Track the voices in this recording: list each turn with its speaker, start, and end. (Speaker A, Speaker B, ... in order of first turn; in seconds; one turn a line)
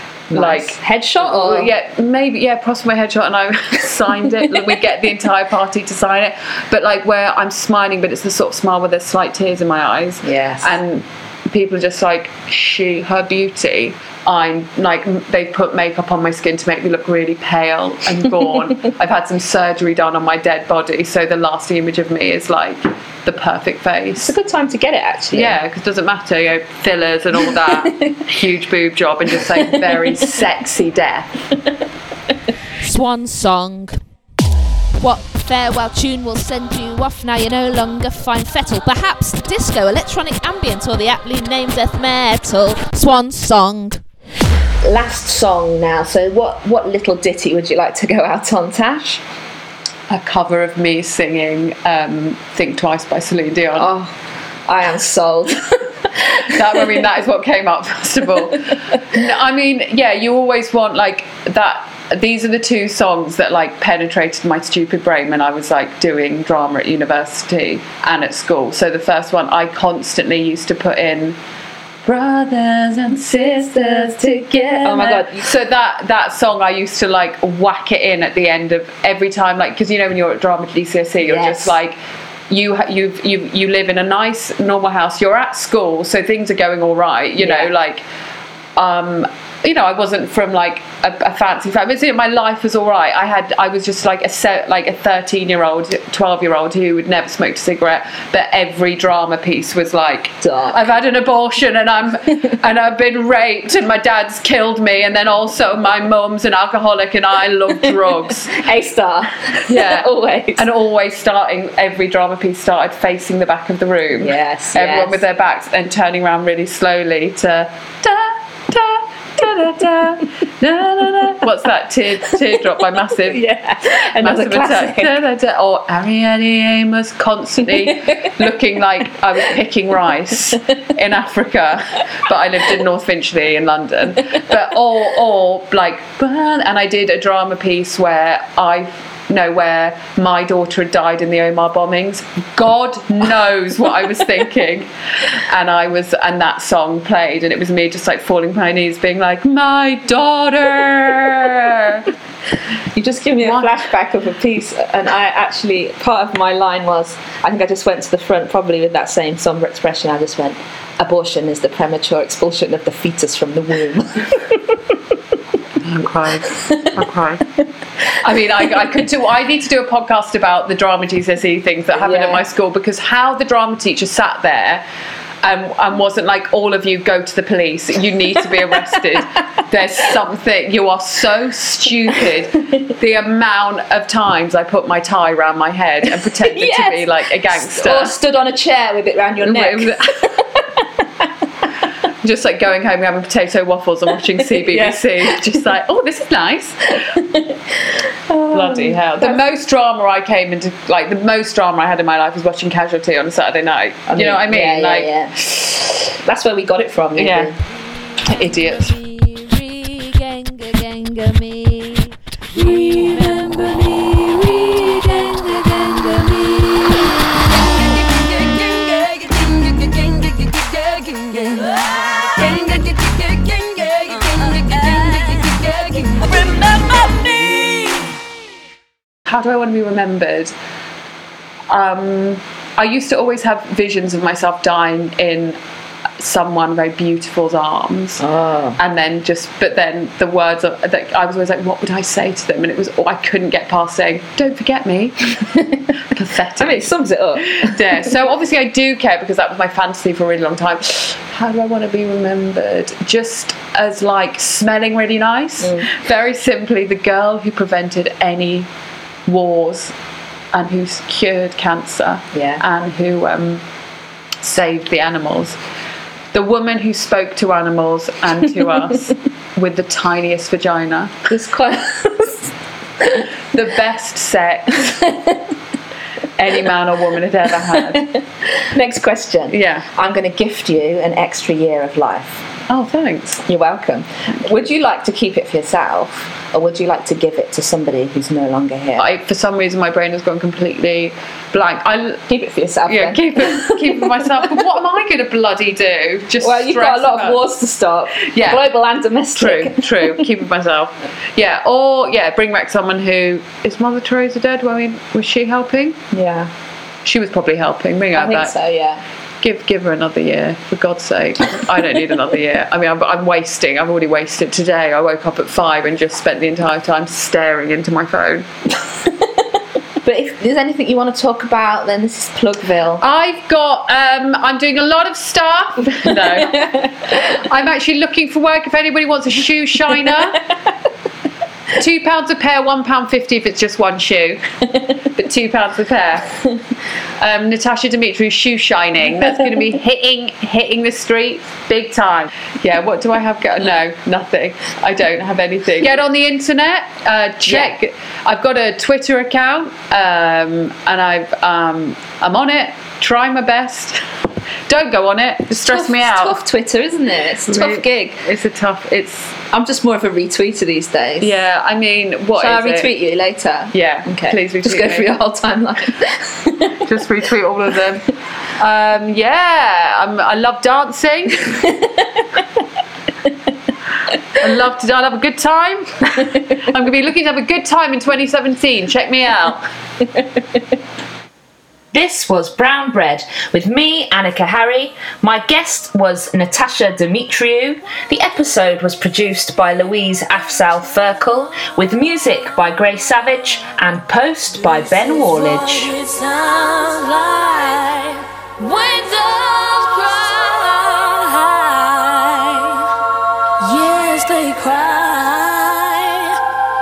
Speaker A: 0.3-24.3
Speaker B: 0.3-1.7
Speaker B: 10.2-10.8
Speaker B: 24.2-25.6
Speaker A: 25.3-31.3
Speaker B: 27.5-28.2
Speaker B: 29.3-30.4
Speaker C: 32.8-34.0
Speaker C: 35.0-44.0
Speaker B: 44.8-49.2
Speaker A: 50.1-53.9
Speaker B: 53.8-54.1
Speaker B: 54.6-56.9
Speaker A: 56.4-71.4
Speaker A: 72.0-82.0
Speaker B: 73.3-75.5
Speaker B: 81.2-81.8
Speaker A: 82.5-88.0
Speaker B: 87.4-87.7
Speaker A: 88.8-108.5
Speaker B: 100.4-100.8
Speaker B: 108.5-110.7
Speaker A: 109.6-144.9
Speaker B: 114.2-115.2
Speaker B: 123.2-125.2
Speaker B: 127.8-128.3
Speaker A: 145.5-152.1
Speaker B: 152.9-164.8
Speaker A: 153.4-153.7
Speaker A: 165.8-167.4
Speaker B: 166.6-166.9
Speaker A: 168.2-174.8
Speaker B: 172.0-172.4
Speaker A: 175.4-188.2
Speaker B: 186.1-191.3
Speaker A: 189.4-190.2
Speaker A: 192.2-197.0
Speaker B: 194.4-195.5
Speaker B: 196.9-199.4
Speaker A: 198.5-205.9
Speaker B: 204.1-205.6
Speaker B: 206.2-207.5
Speaker A: 207.2-207.5
Speaker A: 208.2-209.0
Speaker C: 208.3-228.1
Speaker A: 229.2-230.5
Speaker A: 231.7-235.6
Speaker A: 236.2-238.2
Speaker B: 238.2-238.8
Speaker A: 238.8-245.3
Speaker A: 246.1-258.7
Speaker B: 246.6-247.8
Speaker B: 255.6-255.9
Speaker A: 259.3-259.9
Speaker A: 260.5-263.6
Speaker B: 262.4-262.6
Speaker A: 264.4-265.6
Speaker A: 266.3-271.1
Speaker B: 271.3-273.2
Speaker A: 273.5-275.1
Speaker B: 275.0-275.4
Speaker A: 276.4-278.1
Speaker B: 277.7-282.4
Speaker A: 279.5-279.9
Speaker A: 282.7-283.4
Speaker B: 283.5-289.1
Speaker A: 289.0-292.2
Speaker B: 292.3-294.6
Speaker A: 292.9-297.4
Speaker B: 296.4-300.2
Speaker A: 298.1-298.7
Speaker A: 299.4-306.0
Speaker B: 306.1-306.5
Speaker A: 307.0-308.5
Speaker B: 308.1-309.0
Speaker A: 309.4-318.4
Speaker B: 319.1-319.3
Speaker B: 320.0-323.0
Speaker A: 323.0-330.4
Speaker B: 326.1-327.1
Speaker A: 331.8-334.4
Speaker A: 335.1-336.3
Speaker A: 337.2-354.0
Speaker A: 354.7-356.4
Speaker B: 355.6-358.2
Speaker A: 357.4-359.4
Speaker B: 359.5-361.4
Speaker A: 361.2-362.9
Speaker B: 362.4-366.8
Speaker A: 363.7-365.1
Speaker A: 366.9-371.6
Speaker B: 371.4-372.4
Speaker A: 374.4-379.6
Speaker B: 380.1-380.6
Speaker B: 381.9-395.9
Speaker C: 395.8-402.6
Speaker C: 403.6-406.3